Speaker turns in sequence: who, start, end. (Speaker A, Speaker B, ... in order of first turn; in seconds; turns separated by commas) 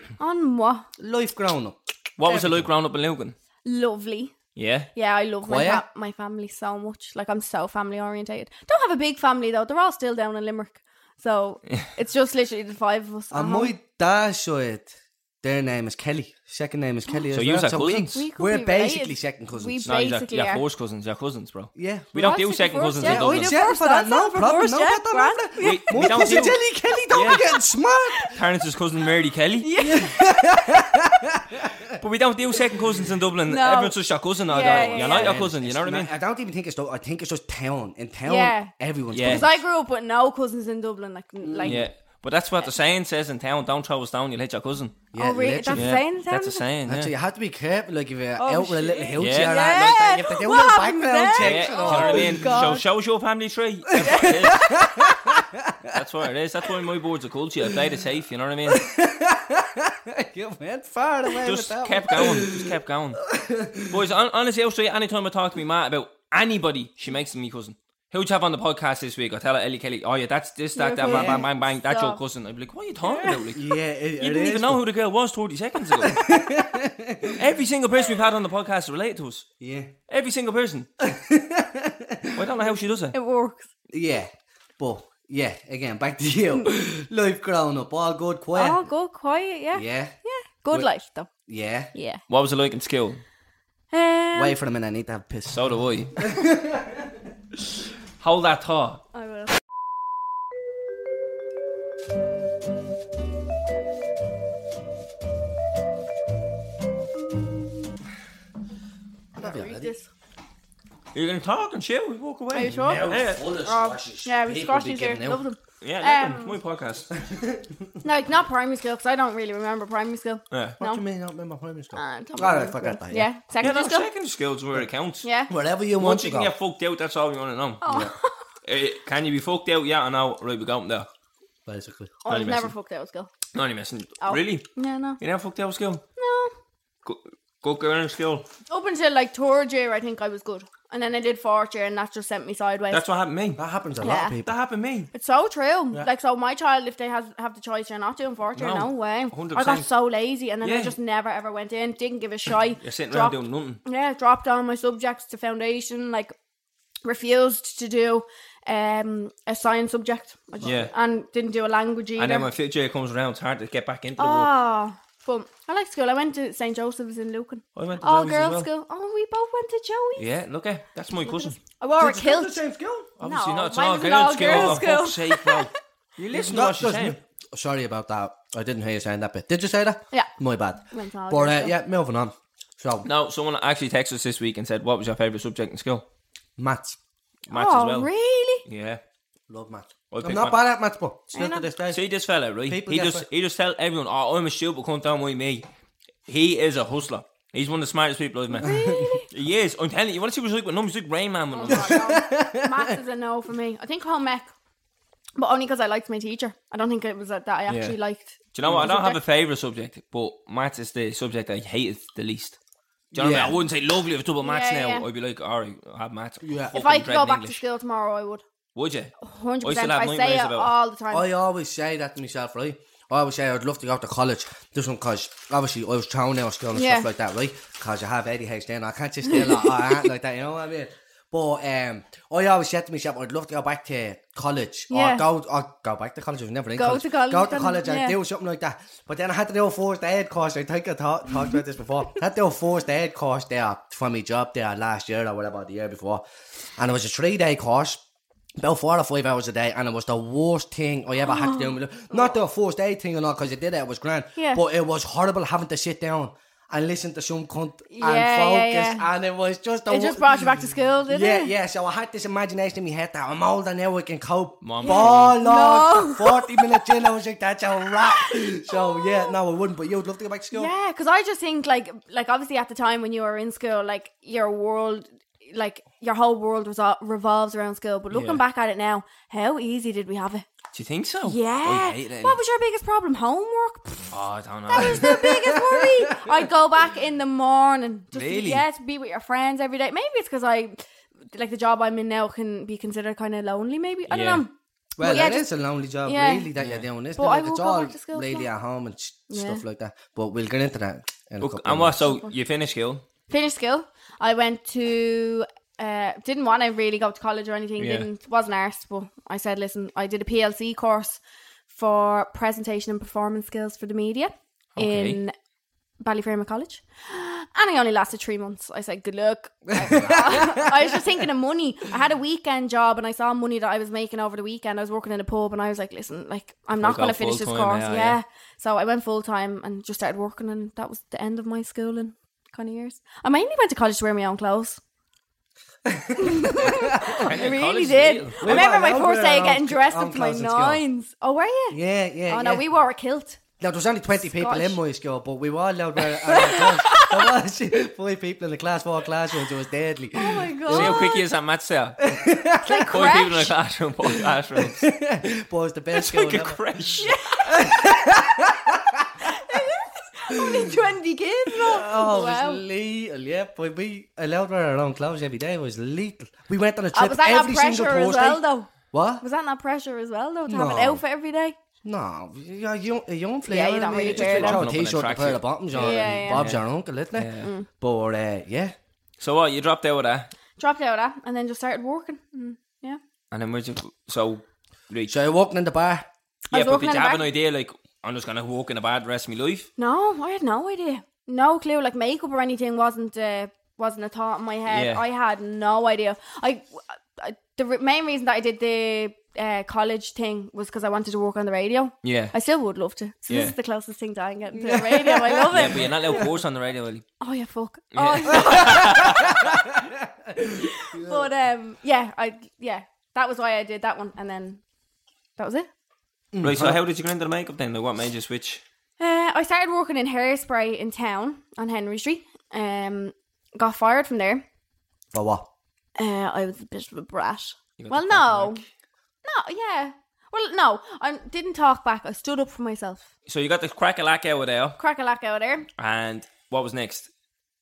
Speaker A: 0.2-0.9, Speaker B: 1.0-2.7, Speaker C: 2.2-3.4, Speaker A: 3.6-4.3, Speaker C: 4.5-4.9, Speaker A: 5.0-13.7, Speaker B: 5.4-5.8, Speaker B: 13.3-19.8, Speaker C: 17.3-18.2, Speaker A: 18.1-20.6, Speaker C: 19.9-23.6, Speaker B: 21.8-22.3, Speaker A: 22.2-26.3, Speaker B: 23.0-28.3, Speaker C: 25.6-26.6, Speaker C: 27.1-27.4, Speaker C: 28.3-29.7, Speaker A: 29.6-30.4, Speaker B: 29.8-32.0, Speaker C: 32.0-36.1, Speaker A: 33.5-35.4, Speaker B: 34.5-39.6, Speaker A: 38.3-41.9, Speaker C: 39.1-39.5, Speaker B: 41.4-41.9, Speaker C: 41.6-45.0, Speaker B: 45.1-46.0, Speaker A: 45.2-46.6, Speaker C: 45.7-47.1, Speaker B: 46.9-52.7, Speaker A: 48.4-52.9, Speaker C: 49.2-49.6, Speaker C: 51.4-54.8, Speaker B: 53.9-56.0, Speaker A: 54.0-54.8, Speaker C: 55.9-58.8, Speaker B: 58.7-62.7, Speaker C: 61.4-63.2, Speaker B: 63.3-64.0, Speaker C: 63.9-73.7, Speaker A: 70.8-72.2, Speaker B: 71.1-71.5, Speaker A: 73.0-73.5, Speaker B: 73.6-74.8, Speaker C: 74.2-76.2, Speaker B: 76.0-77.4, Speaker C: 77.3-79.5, Speaker B: 79.6-79.9, Speaker C: 80.1-80.9, Speaker B: 81.0-82.4, Speaker C: 82.3-83.2, Speaker A: 83.1-83.7, Speaker B: 83.9-88.8, Speaker A: 88.5-91.3, Speaker B: 89.7-90.1, Speaker B: 91.5-91.9, Speaker A: 91.9-92.2, Speaker C: 92.3-93.2, Speaker A: 93.9-94.6, Speaker B: 94.3-95.6, Speaker C: 95.5-96.2, Speaker B: 96.2-97.1, Speaker C: 98.2-99.0, Speaker A: 99.2-99.5, Speaker A: 109.4-110.1, Speaker B: 109.4-109.9, Speaker C: 111.1-113.4, Speaker A: 112.5-116.6, Speaker B: 112.7-115.4, Speaker C: 115.8-117.1, Speaker B: 117.1-117.9, Speaker A: 118.0-121.0, Speaker C: 120.5-120.8, Speaker B: 120.8-123.3, Speaker A: 121.9-124.1, Speaker C: 123.6-125.3, Speaker A: 125.2-125.5, Speaker B: 125.5-126.5, Speaker C: 126.0-127.8, Speaker A: 127.8-128.3, Speaker B: 127.9-128.1, Speaker C: 128.7-131.1, Speaker B: 131.7-132.2, Speaker A: 132.2-133.3, Speaker C: 132.3-132.7, Speaker C: 133.5-134.7, Speaker A: 134.2-135.2, Speaker C: 135.2-136.0, Speaker A: 136.2-136.5, Speaker C: 137.0-138.5, Speaker A: 138.7-143.0, Speaker C: 142.9-143.6, Speaker B: 143.6-144.5, Speaker A: 144.0-144.4, Speaker C: 144.4-145.1, Speaker A: 145.1-156.3, Speaker C: 148.6-149.9, Speaker C: 150.6-150.9, Speaker C: 152.8-153.8, Speaker A: 157.0-162.5, Speaker B: 160.6-160.9, Speaker C: 160.6-160.9, Speaker C: 162.2-164.5, Speaker A: 164.2-170.2, Speaker C: 167.8-168.7, Speaker C: 170.2-171.6, Speaker A: 171.2-172.6, Speaker B: 172.0-173.1, Speaker C: 173.2-177.2, Speaker A: 173.2-175.8, Speaker B: 174.4-174.8, Speaker B: 176.3-183.1, Speaker A: 180.9-181.8, Speaker C: 183.0-186.1, Speaker B: 186.6-187.0, Speaker C: 187.5-188.1, Speaker A: 187.5-188.6, Speaker C: 188.7-189.0, Speaker B: 189.5-192.0, Speaker C: 190.1-190.6, Speaker A: 191.3-191.7, Speaker C: 191.9-195.7, Speaker B: 192.7-193.3, Speaker C: 196.3-202.0, Speaker A: 198.6-199.3, Speaker B: 198.6-199.1, Speaker A: 201.5-204.5, Speaker B: 201.7-202.9, Speaker A: 205.4-209.2, Speaker C: 207.7-208.0, Speaker C: 208.5-212.6, Speaker B: 208.7-208.9, Speaker C: 213.1-217.6, Speaker B: 213.1-213.6, Speaker A: 214.4-215.1, Speaker B: 216.4-216.8, Speaker A: 216.7-218.4, Speaker C: 218.8-220.7, Speaker A: 219.2-221.3, Speaker B: 221.1-246.2, Speaker A: 226.7-227.1, Speaker A: 229.3-230.0, Speaker A: 234.9-235.3, Speaker A: 236.8-238.2, Speaker B: 246.8-248.0, Speaker B: 248.6-270.7, Speaker A: 251.2-252.3, Speaker A: 254.4-254.6, Speaker A: 257.9-259.1, Speaker A: 259.9-261.5, Speaker C: 264.6-265.4, Speaker A: 264.8-267.0, Speaker A: 267.9-269.4, Speaker A: 270.5-280.5, Speaker C: 278.1-278.4, Speaker C: 280.7-282.4, Speaker A: 281.2-284.2, Speaker C: 284.1-285.1, Speaker A: 284.7-290.8, Speaker B: 284.8-286.4, Speaker C: 288.1-288.6, Speaker A: 291.3-295.5, Speaker C: 294.1-294.4, Speaker B: 295.0-302.0, Speaker A: 296.1-296.5, Speaker C: 296.6-296.9, Speaker A: 297.2-298.5, Speaker A: 299.3-299.6, Speaker C: 301.4-303.0, Speaker A: 302.0-302.3, Speaker A: 303.3-315.3, Speaker C: 307.8-308.1, Speaker C: 314.8-315.2, Speaker A: 316.0-334.8, Speaker B: 319.7-321.2, Speaker C: 326.8-328.2, Speaker B: 335.9-337.3, Speaker A: 336.2-343.4, Speaker C: 337.1-338.6, Speaker B: 338.4-340.8, Speaker B: 341.7-342.6, Speaker B: 343.6-351.1, Speaker A: 344.2-344.8, Speaker A: 346.2-347.3, Speaker A: 350.1-351.3, Speaker C: 350.7-352.0, Speaker B: 352.0-352.9, Speaker A: 352.6-353.5, Speaker C: 352.9-354.9, Speaker B: 354.6-356.6, Speaker C: 355.9-357.2, Speaker A: 357.0-357.7, Speaker B: 357.5-359.2, Speaker A: 359.2-362.6, Speaker B: 360.3-360.8, Speaker B: 361.5-369.2, Speaker A: 366.9-371.6, Speaker B: 370.5-371.0, Speaker B: 371.8-378.7, Speaker A: 373.5-374.7, Speaker C: 373.9-376.6, Speaker A: 375.8-376.5, Speaker C: 377.1-377.5, Speaker C: 379.2-380.3, Speaker A: 380.6-383.0, Speaker C: 383.3-385.1, Speaker B: 385.1-386.1, Speaker A: 386.5-387.3, Speaker C: 386.5-389.7, Speaker A: 389.8-406.3, Speaker C: 394.7-395.0, Speaker C: 402.0-402.3, Speaker C: 403.3-403.6, Speaker B: 404.5-406.2, Speaker C: 405.5-407.1, Speaker A: 407.2-409.5, Speaker C: 407.9-409.4, Speaker B: 408.6-411.3, Speaker A: 410.5-414.6, Speaker A: 415.4-415.7, Speaker B: 416.3-416.8, Speaker C: 416.4-418.6, Speaker A: 419.0-424.4, Speaker B: 425.1-425.5, Speaker A: 426.0-428.6, Speaker C: 427.8-428.6, Speaker A: 429.2-433.1, Speaker C: 433.3-434.8, Speaker A: 434.8-435.7, Speaker C: 435.8-437.1